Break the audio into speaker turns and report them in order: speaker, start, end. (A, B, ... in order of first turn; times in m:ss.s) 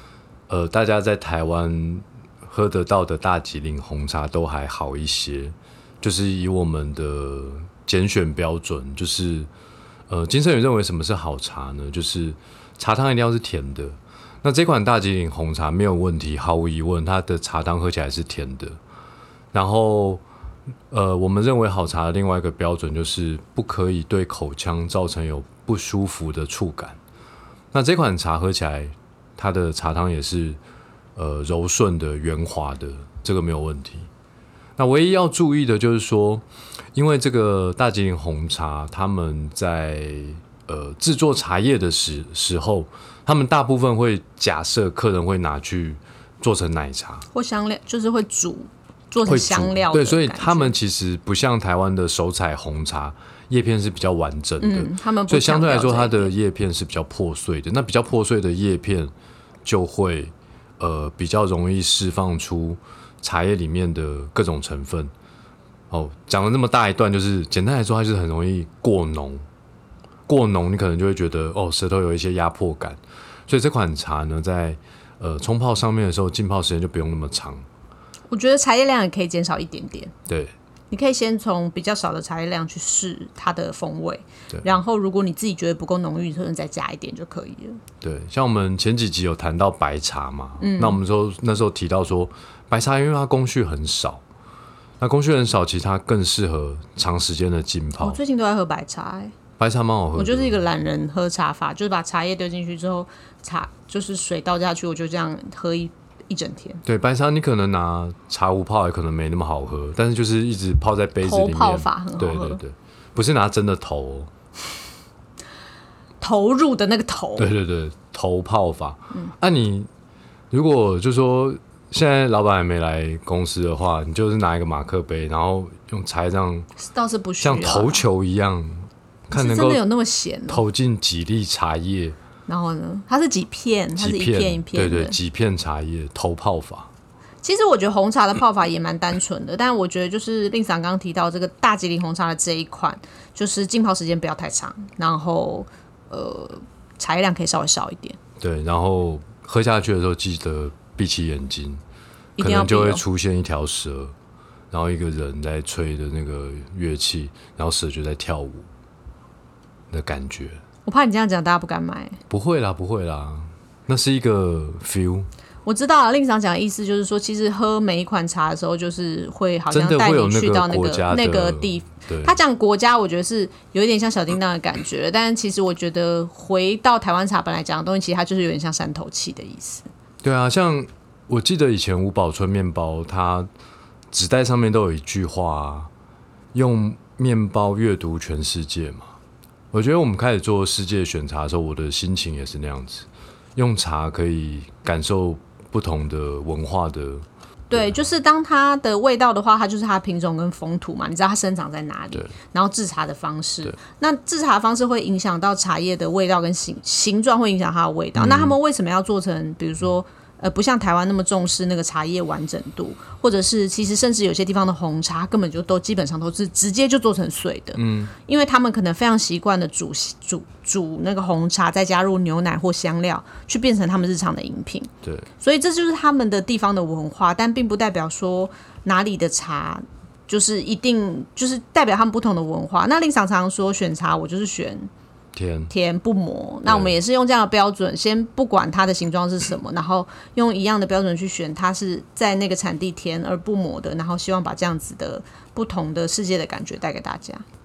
0:00.5-0:09.5 A
0:10.1-0:18.8 A
0:19.5-0:20.2 A
0:20.9-0:27.0 A
0:27.7-0:30.6 A
0:31.2-0:34.1 A
0:34.8-0:36.4 A
0:36.9-0:47.3 A
0:47.3-0:50.7 B
0:49.2-0:59.1 A
0:54.6-0:56.3 B
0:59.6-1:05.1 A
1:05.9-1:09.4 A
1:10.3-1:17.6 A
1:18.3-1:20.1 B
1:20.3-1:20.5 A
1:20.9-1:27.8 B
1:28.0-1:34.2 A
1:30.6-1:31.0 B
1:35.0-1:38.2 A
1:38.0-1:39.3 B
1:39.6-1:40.6 A
1:40.2-1:46.8 B
1:46.8-1:54.3 A
1:51.2-1:52.6 B
1:56.2-1:57.5 B
1:57.4-1:59.9 A
2:00.5-2:06.7 A
2:06.8-2:08.0 B
2:07.4-2:09.8 A
2:09.3-2:10.6 B
2:10.5-2:12.2 A
2:12.5-2:15.2 B
2:14.0-2:16.9 A
2:17.4-2:28.2 B
2:28.4-2:31.8 A
2:32.4-2:33.0 B
2:32.4-2:34.1 A
2:34.7-2:38.7 A
2:39.9-2:40.6 A
2:40.8-2:42.2 B
2:42.3-2:45.3 A
2:45.6-2:59.9 B
2:49.7-2:52.4 A
3:00.2-3:03.5 A
3:04.1-3:05.9 A
3:06.5-3:09.1 A
3:09.7-3:18.0 A
3:17.7-3:54.9 B
3:28.2-3:28.5 A
3:37.8-3:38.1 A
3:45.0-3:45.3 A
3:55.3-3:55.7 A
3:55.7-4:07.4 B
3:56.6-3:56.9 A